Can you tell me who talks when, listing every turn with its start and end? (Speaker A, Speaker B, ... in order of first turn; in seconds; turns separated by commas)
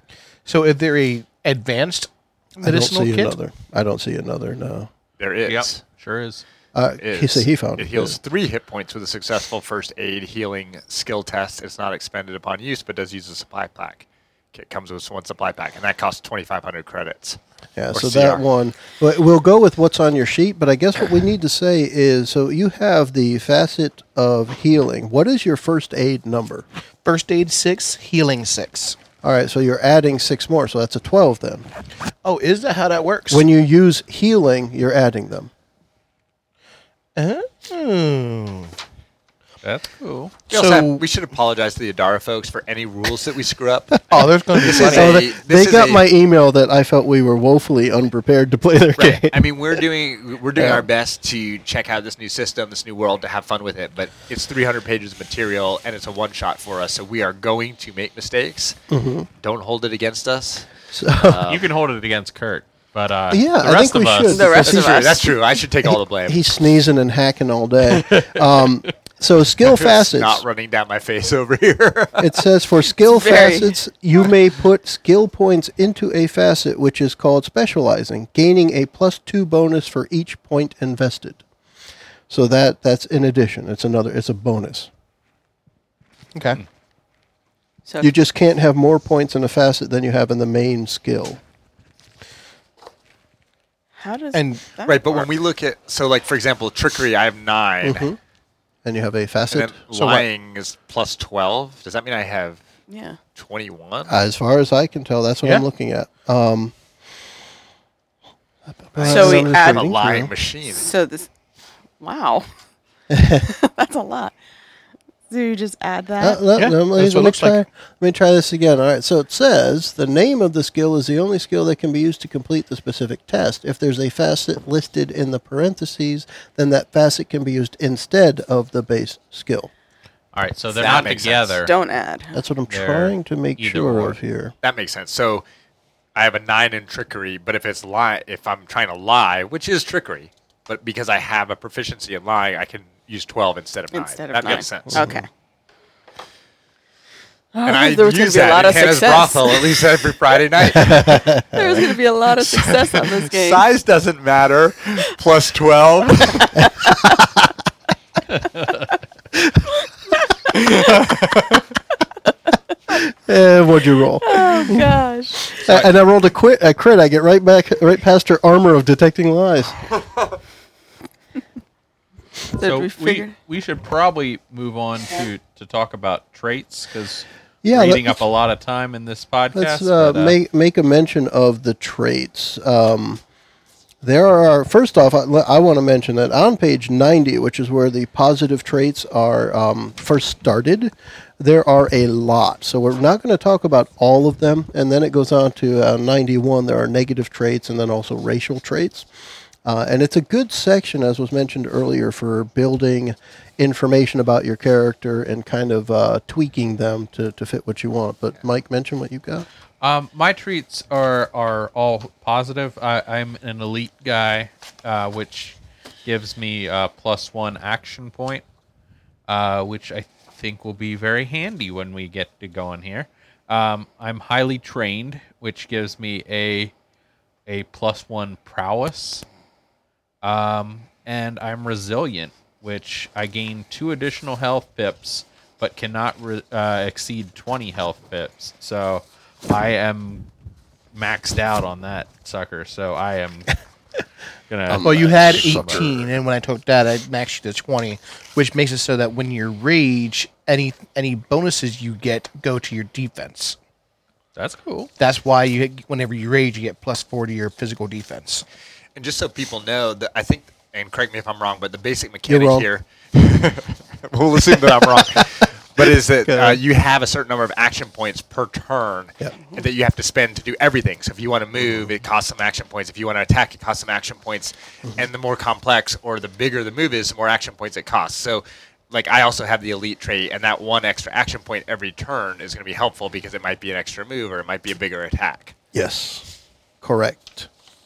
Speaker A: 0.5-3.3, Speaker B: 2.6-4.9, Speaker C: 5.2-5.8, Speaker D: 5.5-6.4, Speaker B: 6.7-8.2, Speaker C: 7.0-17.4, Speaker B: 17.8-26.6, Speaker C: 17.9-18.4, Speaker A: 27.0-29.0, Speaker B: 29.2-31.6, Speaker A: 32.2-33.4, Speaker B: 33.3-35.5, Speaker A: 37.1-38.7, Speaker D: 39.6-40.4, Speaker A: 40.5-41.0, Speaker C: 40.5-46.0, Speaker A: 44.1-45.2, Speaker B: 44.5-49.8, Speaker C: 49.0-58.8, Speaker B: 50.6-50.9, Speaker B: 58.9-59.3, Speaker C: 59.4-60.7, Speaker B: 60.9-61.4, Speaker C: 61.2-61.7, Speaker D: 61.5-64.7, Speaker B: 63.3-64.9, Speaker E: 64.3-65.3, Speaker C: 64.6-66.5, Speaker B: 65.8-70.4, Speaker D: 67.9-68.5, Speaker C: 69.7-72.3, Speaker B: 72.2-81.4, Speaker E: 73.0-73.7, Speaker B: 82.3-84.9, Speaker A: 86.3-86.6, Speaker B: 88.0-91.4, Speaker E: 94.0-95.0, Speaker A: 94.3-95.3, Speaker C: 94.9-98.1, Speaker B: 97.8-98.2, Speaker B: 98.8-99.9, Speaker C: 99.5-102.6, Speaker A: 99.9-100.2, Speaker E: 102.9-103.2, Speaker C: 103.3-104.1, Speaker B: 104.1-106.7, Speaker B: 108.8-110.3, Speaker C: 109.0-110.9, Speaker E: 109.1-109.9, Speaker E: 110.7-111.3, Speaker E: 112.0-112.5, Speaker B: 113.1-113.5, Speaker E: 113.4-114.3, Speaker E: 115.3-116.4, Speaker B: 116.2-129.7, Speaker A: 116.6-117.6, Speaker D: 130.3-131.7, Speaker C: 130.7-131.6, Speaker E: 131.6-132.4, Speaker B: 132.3-134.5, Speaker D: 132.7-134.2, Speaker C: 134.6-135.4, Speaker C: 136.1-145.0, Speaker E: 143.9-145.3, Speaker B: 144.9-145.2, Speaker E: 147.5-149.8, Speaker C: 147.6-151.2, Speaker B: 150.6-151.8, Speaker E: 151.5-153.6, Speaker C: 152.4-156.9, Speaker C: 160.6-161.6, Speaker B: 162.9-164.8, Speaker E: 164.2-165.6, Speaker B: 165.6-169.8, Speaker D: 165.6-165.9, Speaker E: 172.5-173.3, Speaker D: 172.6-180.4, Speaker B: 177.6-178.2, Speaker B: 179.5-183.2, Speaker B: 184.0-199.1, Speaker B: 199.6-209.4, Speaker D: 209.8-218.4, Speaker D: 219.3-226.7, Speaker D: 227.4-229.2, Speaker D: 230.2-240.3, Speaker D: 240.9-243.5, Speaker D: 244.5-245.9, Speaker B: 244.7-245.9, Speaker A: 244.8-253.6, Speaker D: 254.3-254.9, Speaker A: 255.0-258.4, Speaker C: 258.9-285.5, Speaker B: 262.3-262.6, Speaker B: 264.8-265.2, Speaker B: 266.3-266.6, Speaker B: 285.7-286.3, Speaker B: 286.8-287.5